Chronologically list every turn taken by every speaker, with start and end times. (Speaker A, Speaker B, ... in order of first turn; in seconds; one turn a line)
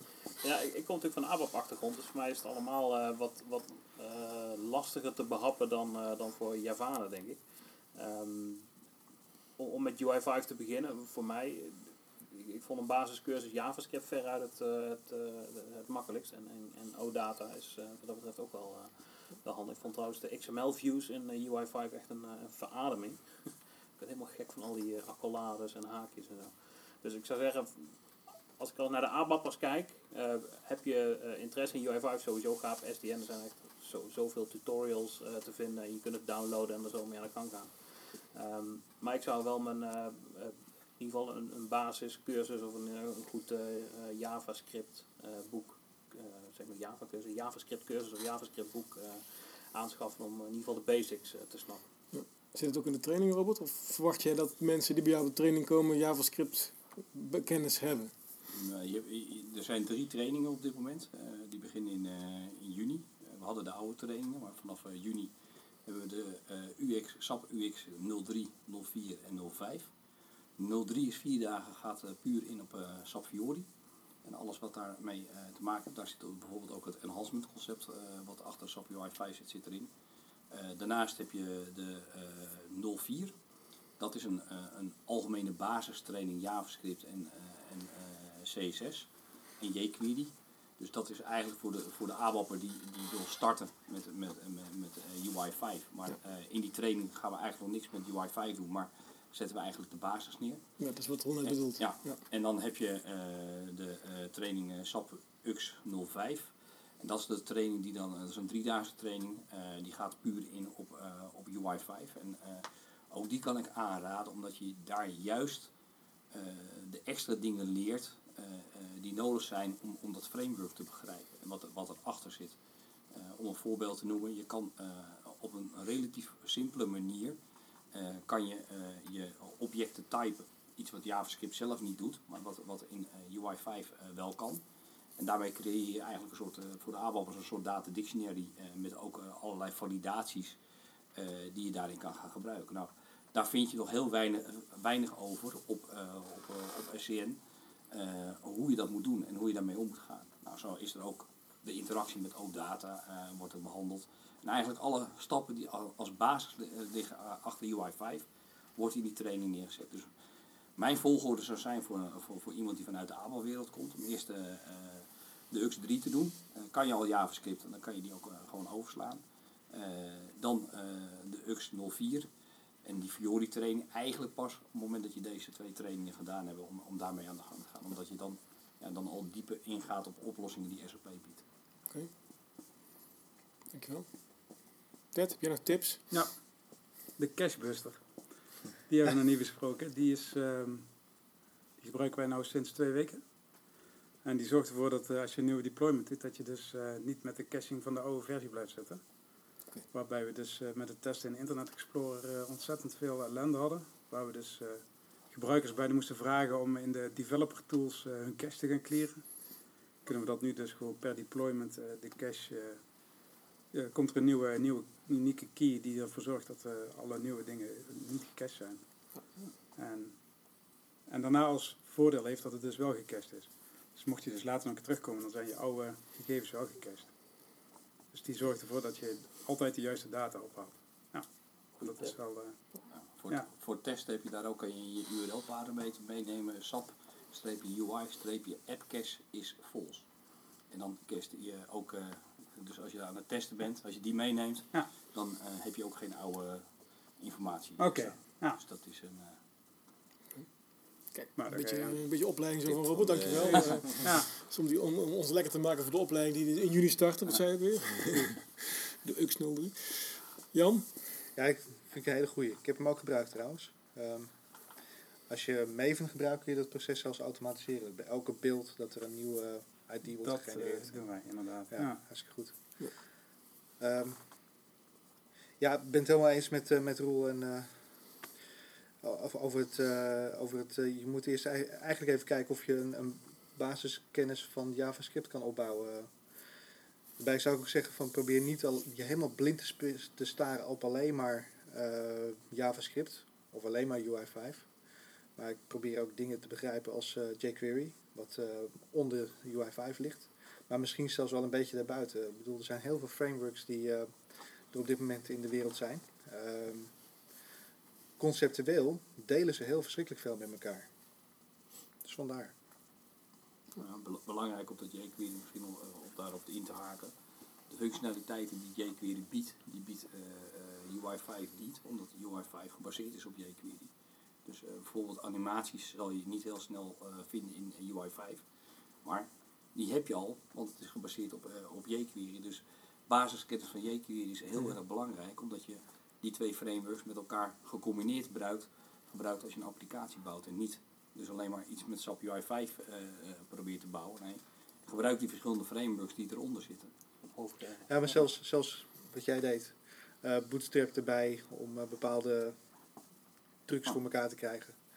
Speaker A: 0.4-8.7
Speaker A: 9.6-28.0
Speaker A: 28.6-51.9
Speaker B: 52.1-58.1
Speaker C: 58.5-65.3
Speaker C: 65.8-69.9
Speaker C: 70.6-73.7
Speaker C: 74.2-79.9
Speaker C: 80.5-83.3
Speaker C: 84.0-100.7
Speaker B: 100.8-102.2
Speaker C: 101.4-115.7
Speaker C: 116.3-122.6
Speaker C: 123.1-127.4
Speaker C: 127.9-134.6
Speaker C: 135.2-140.6
Speaker C: 141.2-160.1
Speaker C: 160.8-172.3
Speaker C: 172.8-181.4
Speaker B: 183.7-184.1
Speaker B: 185.1-186.0
Speaker D: 186.1-191.1
Speaker D: 191.8-193.7
Speaker D: 194.2-199.2
Speaker D: 199.9-209.3
Speaker D: 210.0-212.9
Speaker D: 213.7-219.2
Speaker D: 219.8-227.2
Speaker D: 228.1-233.5
Speaker C: 232.9-240.1
Speaker C: 240.7-249.4
Speaker D: 247.8-248.6
Speaker B: 251.0-261.2
Speaker D: 251.3-252.4
Speaker C: 252.7-253.9
Speaker D: 253.9-254.3
Speaker E: 261.4-264.3
Speaker E: 265.3-272.8
Speaker D: 270.1-272.1
Speaker E: 273.8-274.2
Speaker E: 275.6-277.8
Speaker E: 279.0-286.1
Speaker E: 287.2-294.7
Speaker E: 295.4-306.9
Speaker E: 308.2-310.9
Speaker E: 312.0-312.5
Speaker C: 313.8-317.1
Speaker C: 317.7-323.9
Speaker C: 324.4-328.4
Speaker C: 329.0-346.9
Speaker A: 347.3-348.2
Speaker E: 347.9-352.6
Speaker E: 353.7-354.8